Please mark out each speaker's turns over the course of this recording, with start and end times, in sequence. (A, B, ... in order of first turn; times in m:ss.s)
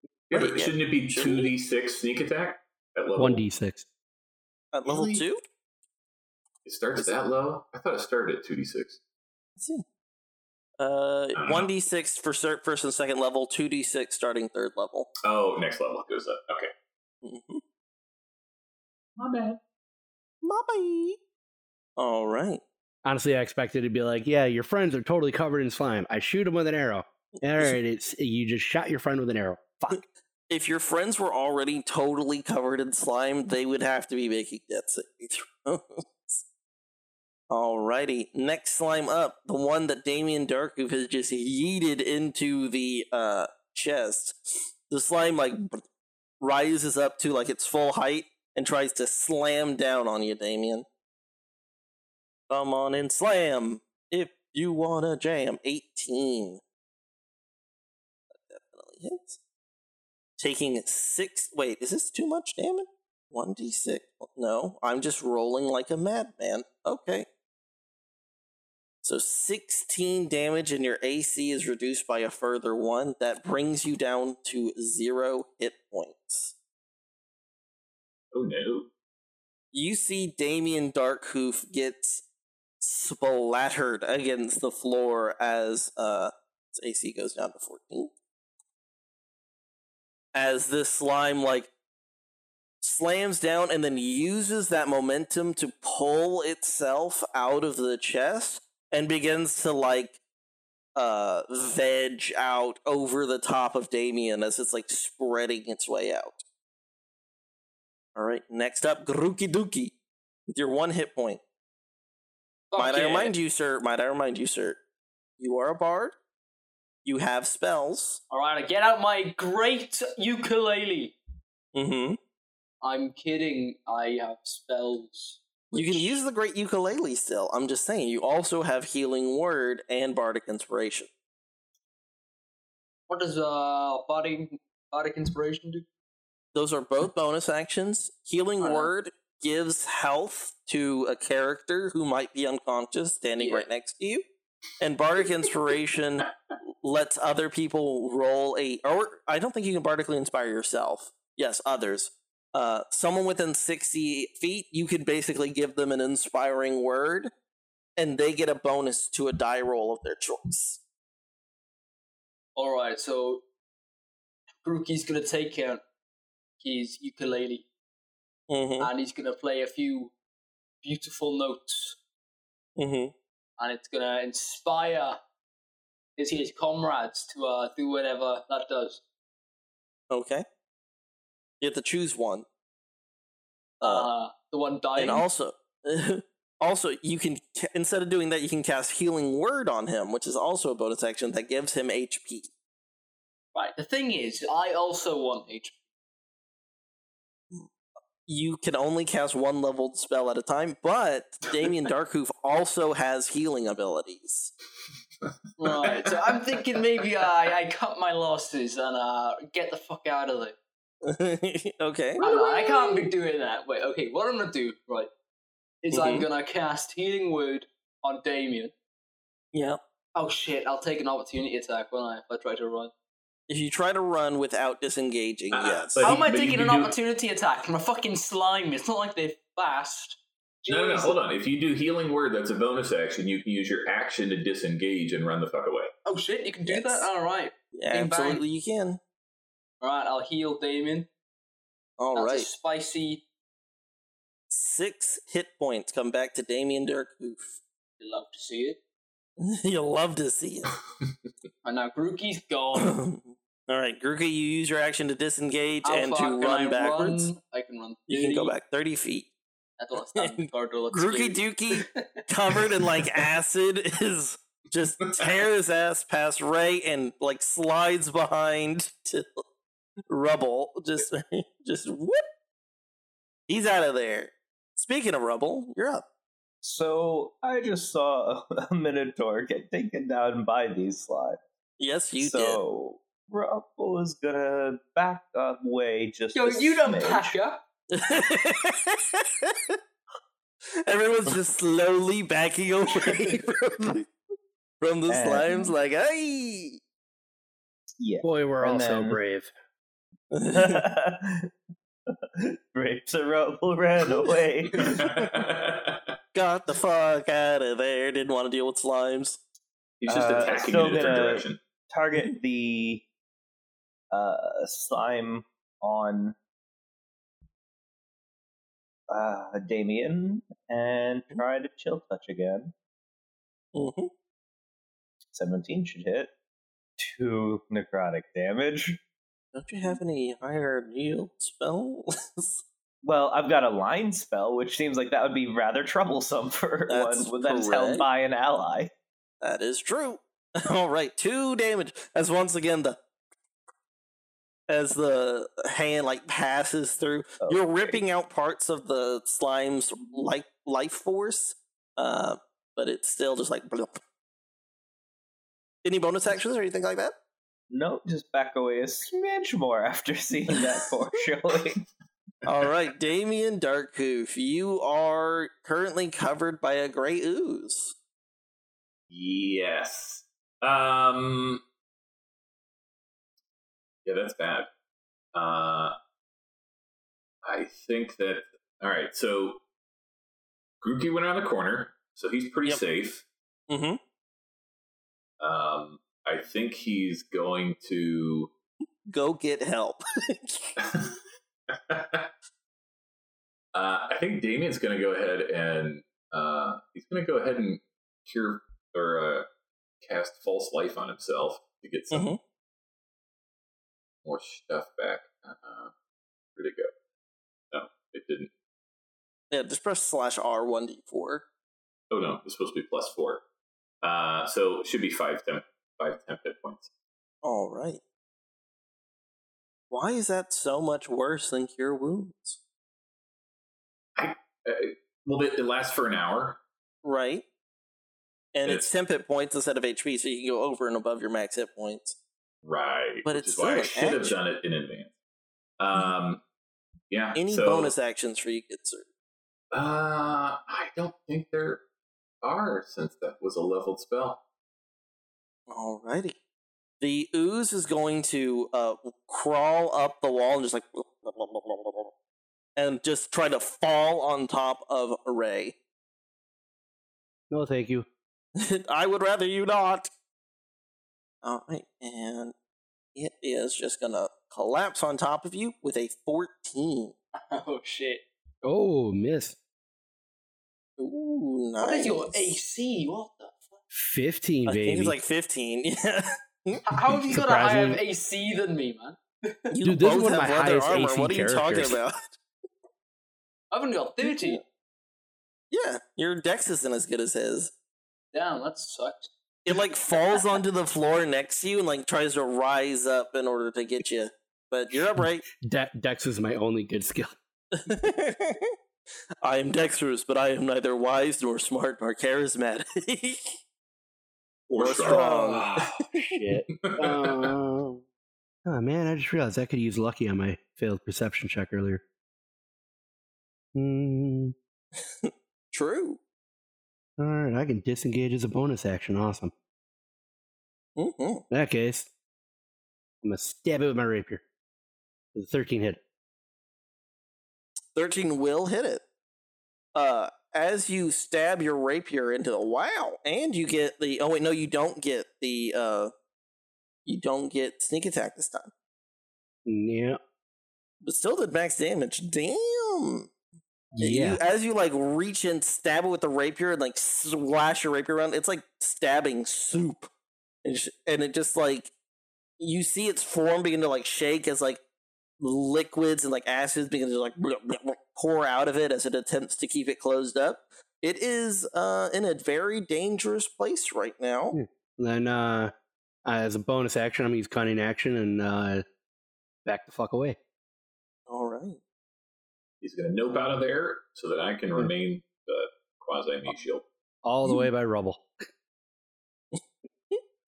0:00.3-0:03.4 A
0:00.3-0:01.5 B
0:03.2-0:03.8 C
0:04.7-0:05.4 B
0:04.8-0:05.2 A
0:06.6-0:09.0 A
0:09.6-0:09.8 B
0:10.8-0:15.1 B
0:11.4-0:11.7 A
0:15.2-0:16.7 A
0:17.2-0:17.6 B
0:19.2-0:19.6 A
0:20.4-0:21.2 B
0:22.0-0:22.6 B
0:23.0-0:30.0 C
0:27.5-0:27.8 B
0:29.9-0:36.4 B
0:37.5-0:45.8 B
0:46.4-0:50.8 B
0:52.5-0:56.6 B
0:58.3-0:59.4 B
1:00.4-1:07.2 B
1:09.0-1:16.5 B
1:18.3-1:18.9 A
1:19.7-1:22.2 B
1:22.8-1:28.1 B
1:30.3-1:31.7 B
1:32.8-1:40.2 B
1:41.0-1:46.4 B
1:48.2-1:49.9 B
1:50.5-1:51.4 B
1:52.7-1:53.3 D
1:52.8-1:54.8 B
1:55.4-1:56.1 B
1:57.0-1:58.2 B
1:58.3-2:01.2 D
2:01.7-2:02.2 B
2:02.8-2:06.2 D
2:05.7-2:11.1 B
2:13.1-2:15.8 D
2:16.5-2:24.2 B
2:18.6-2:18.9 D
2:23.4-2:23.7 D
2:24.8-2:26.3 B
2:26.8-2:37.3 B
2:38.0-2:40.8 B
2:42.6-2:43.4 D
2:44.6-2:45.8 D
2:46.6-2:47.6 D
2:48.5-2:48.9 B
2:48.8-2:50.1 D
2:50.8-2:52.0 D
2:52.8-2:53.1 B
2:53.6-2:55.2 D
2:56.2-2:59.0 D
3:00.1-3:00.4 B
3:01.6-3:02.4 B
3:03.8-3:04.1 B
3:03.8-3:05.2 D
3:05.0-3:12.5 B
3:13.5-3:15.8 D
3:18.2-3:24.5 B
3:25.2-3:26.4 A
3:25.6-3:30.6 D
3:31.0-3:33.1 B
3:32.2-3:35.1 D
3:35.8-3:38.7 D
3:35.9-3:36.3 B
3:39.5-3:39.8 B
3:40.1-3:42.9 D
3:43.5-3:46.2 B
3:45.5-3:46.9 A
3:46.0-3:51.2 D
3:50.7-3:55.9 A
3:56.0-3:58.4 D
3:56.7-3:57.1 B
3:57.7-3:59.0 B
3:59.8-4:01.1 D
4:02.0-4:02.5 B
4:02.1-4:03.2 D
4:04.5-4:07.6 B
4:08.0-4:08.8 D
4:09.4-4:10.8 B
4:11.6-4:13.0 D
4:12.8-4:17.3 B
4:15.8-4:18.5 D
4:18.1-4:19.3 B
4:19.8-4:22.7 D
4:20.2-4:29.4 B
4:25.1-4:25.4 A
4:30.1-4:32.2 B
4:33.5-4:36.0 B
4:36.6-4:41.4 E
4:41.8-4:42.6 B
4:42.2-4:47.3 E
4:46.3-4:47.6 D
4:47.9-4:49.8 B
4:50.8-4:54.1 B
4:54.8-4:56.8 B
4:55.1-4:55.7 E
4:58.0-4:59.2 E
4:58.2-4:59.5 C
5:00.3-5:00.8 B
5:00.5-5:01.5 E
5:02.4-5:05.1 E
5:04.8-5:06.1 A
5:06.3-5:09.4 B
5:10.0-5:11.6 A
5:10.1-5:13.0 E
5:14.1-5:16.3 E
5:19.1-5:22.7 E
5:23.7-5:24.1 B
5:25.3-5:26.3 E
5:27.0-5:29.0 E
5:29.5-5:32.6 B
5:33.0-5:38.9 E
5:36.9-5:38.1 B
5:39.4-5:43.0 B
5:44.7-5:54.0 B
5:47.4-5:48.0 E
5:55.8-5:57.1 B
5:57.7-6:01.8 E
6:02.4-6:07.9 B
6:09.1-6:11.6 A
6:14.0-6:14.7 A
6:15.3-6:16.0 A
6:17.4-6:19.6 A
6:20.8-6:23.2 A
6:23.7-6:24.0 B
6:25.4-6:28.5 A
6:29.1-6:30.8 B
6:30.8-6:31.1 A
6:31.7-6:32.3 A
6:33.7-6:39.4 A
6:40.0-6:42.3 A
6:42.1-6:42.4 B
6:44.2-6:45.9 A
6:46.6-6:46.9 A
6:47.7-6:48.5 A
6:49.5-6:51.4 B
6:52.1-6:53.4 A
6:54.0-6:56.9 A
6:57.4-6:58.0 B
6:59.9-7:02.6 B
7:04.2-7:06.6 A
7:07.0-7:07.4 B
7:08.5-7:12.1 B
7:12.6-7:15.1 A
7:13.2-7:14.4 B
7:15.8-7:16.4 A
7:17.1-7:17.9 A
7:17.3-7:19.0 B
7:19.7-7:21.8 A
7:22.4-7:24.4 A
7:25.7-7:26.4 B
7:27.0-7:32.1 B
7:32.8-7:35.7 B
7:37.5-7:38.0 C
7:38.6-7:40.1 B
7:41.4-7:42.5 B
7:43.1-7:47.1 B
7:47.5-7:48.2 D
7:48.6-7:49.6 C
7:51.0-7:52.3 B
7:51.8-7:53.8 D
7:53.9-7:55.2 C
7:54.7-7:56.8 B
7:56.8-7:59.8 D
7:57.3-7:58.0 C
7:59.7-8:02.4 B
7:59.8-8:02.0 C
8:03.7-8:04.6 D
8:04.2-8:04.6 B
8:05.7-8:07.7 B
8:08.3-8:09.3 D
8:09.6-8:15.4 B
8:15.1-8:17.3 C
8:17.8-8:18.7 B
8:19.4-8:23.5 B
8:24.7-8:26.0 A
8:24.8-8:26.4 B
8:25.0-8:25.6 C
8:26.2-8:28.0 C
8:26.8-8:27.5 A
8:28.6-8:32.0 C
8:33.7-8:34.5 C
8:35.2-8:36.2 B
8:37.2-8:39.5 C
8:41.0-8:41.4 B
8:41.5-8:42.1 C
8:43.2-8:44.4 C
8:45.3-8:46.0 C
8:47.9-8:49.0 B
8:49.9-8:56.1 B
8:57.0-8:58.7 B
8:59.7-9:00.2 C
9:01.0-9:03.3 B
9:04.0-9:04.4 C
9:04.0-9:10.1 B
9:10.6-9:11.9 B
9:12.6-9:14.8 B
9:15.4-9:24.6 B
9:24.5-9:25.7 C
9:26.3-9:28.8 C
9:29.6-9:30.4 C
9:31.3-9:31.8 B
9:32.8-9:36.8 A
9:37.2-9:38.2 C